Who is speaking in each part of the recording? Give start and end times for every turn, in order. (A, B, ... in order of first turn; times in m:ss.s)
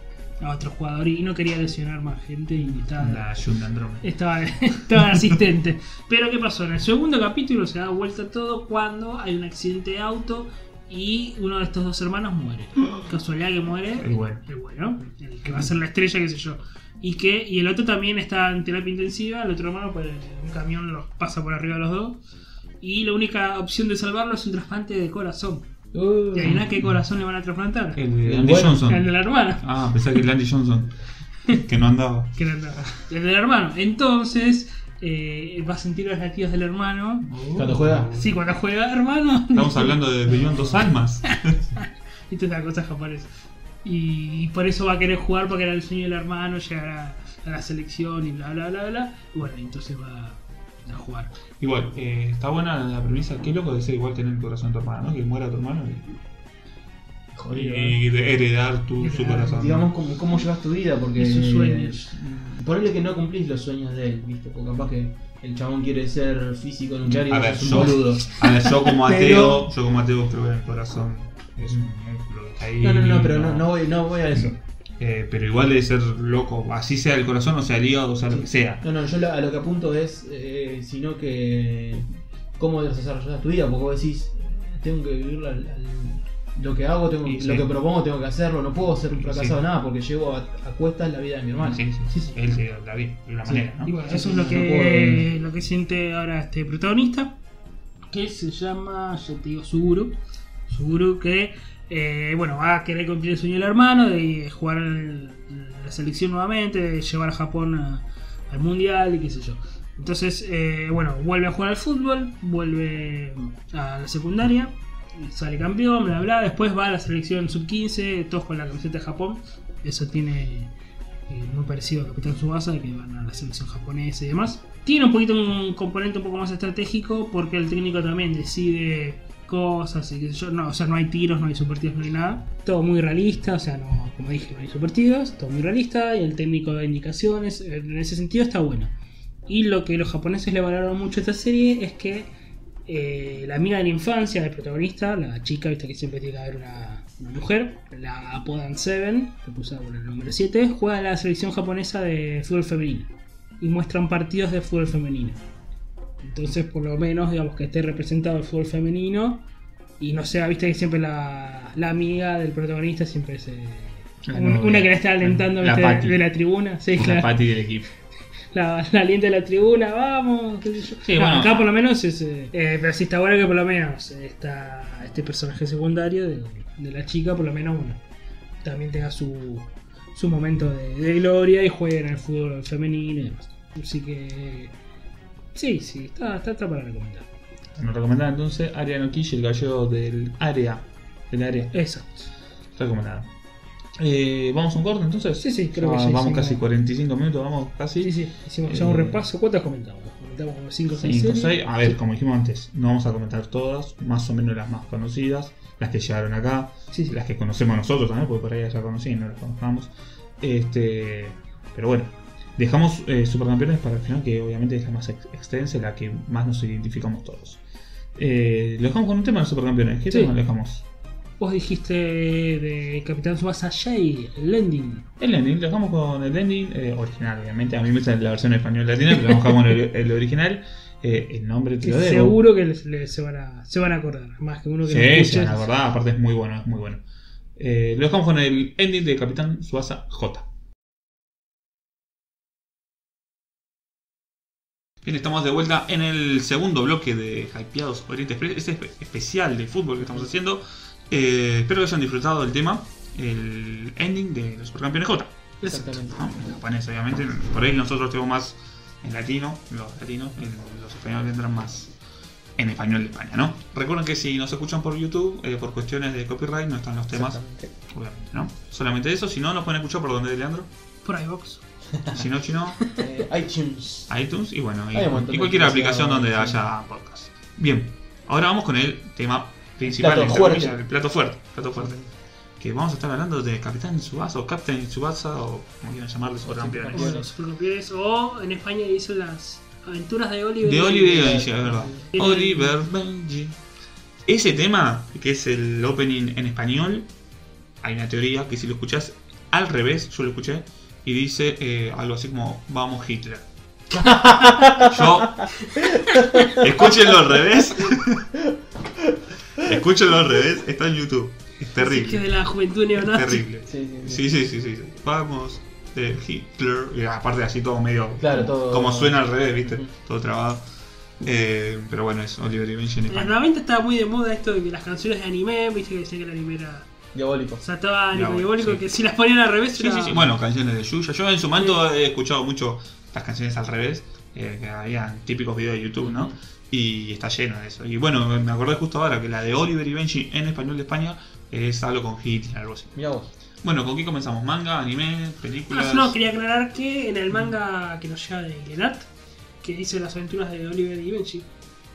0:00.4-0:03.3 A
0:03.0-0:04.0 B
0:04.0-0:22.2 A
0:05.0-0:05.2 B
0:14.0-0:14.4 B
0:22.8-0:25.7 A
0:25.9-0:26.6 C
0:26.3-0:28.0 A
0:26.4-0:27.0 B
0:28.0-0:30.9 B
0:28.2-0:28.8 C
0:28.8-0:30.2 A
0:31.5-0:32.4 B
0:32.4-0:37.3 A
0:37.2-0:38.3 B
0:37.6-0:38.1 C
0:38.1-0:43.3 A
0:39.5-0:41.6 B
0:43.8-0:51.3 A
0:51.6-0:56.1 B
0:57.3-0:58.0 C
0:57.5-0:59.9 B
0:59.0-0:59.6 A
0:59.4-1:08.4 C
1:01.1-1:02.1 A
1:07.0-1:13.7 B
1:09.0-1:09.6 C
1:09.0-1:09.6 A
1:12.8-1:14.6 C
1:14.3-1:18.8 B
1:18.3-1:31.8 C
1:27.2-1:27.7 B
1:29.2-1:29.6 B
1:31.6-1:34.0 B
1:33.4-1:35.3 C
1:33.8-1:37.4 A
1:38.1-2:00.7 A
2:01.3-2:18.9 A
2:19.5-2:22.3 A
2:22.9-2:35.4 A
2:36.2-2:39.4 A
2:40.0-2:47.4 A
2:44.2-2:46.2 B
2:47.0-2:47.9 B
2:48.5-2:58.0 A
2:51.0-2:51.7 B
2:58.6-3:04.7 A
3:05.5-3:07.3 A
3:07.7-3:11.7 B
3:11.7-3:12.3 A
3:12.8-3:13.3 B
3:14.0-3:18.1 B
3:15.4-3:16.6 A
3:18.0-3:22.0 A
3:18.6-3:19.2 B
3:20.9-3:37.6 B
3:26.9-3:27.2 A
3:38.2-3:40.8 B
3:40.1-3:40.3 A
3:41.4-3:45.1 A
3:45.2-3:52.4 B
3:51.8-3:55.7 A
3:54.8-3:57.0 B
3:57.6-4:00.5 B
4:05.0-4:21.9 B
4:10.0-4:10.3 C
4:15.6-4:15.9 A
4:15.6-4:16.2 C
4:22.6-4:30.7 B
4:27.1-4:27.7 C
4:31.0-4:31.6 A
4:31.9-4:32.2 C
4:32.1-4:32.8 B
4:32.8-4:34.1 C
4:34.1-4:42.0 B
4:34.9-4:36.6 C
4:39.8-4:40.8 C
4:41.8-4:42.1 C
4:42.6-4:47.2 B
4:46.4-4:47.3 C
4:46.9-4:51.5 A
4:50.6-4:53.6 B
4:51.1-4:52.1 C
4:52.1-4:52.7 A
4:54.2-4:57.1 B
4:57.8-5:03.4 B
5:03.9-5:06.9 C
5:04.8-5:05.6 B
5:06.5-5:08.3 B
5:08.4-5:09.7 C
5:09.6-5:12.3 B
5:11.8-5:13.4 A
5:13.0-5:20.6 B
5:13.6-5:14.2 C
5:18.2-5:19.9 C
5:21.2-5:23.4 B
5:23.1-5:26.9 A
5:27.1-5:27.6 C
5:27.6-5:30.3 A
5:28.1-5:28.9 B
5:29.7-5:43.0 B
5:36.0-5:36.3 C
5:42.9-5:43.3 C
5:43.6-5:46.2 B
5:45.7-5:49.1 A
5:49.6-5:51.5 A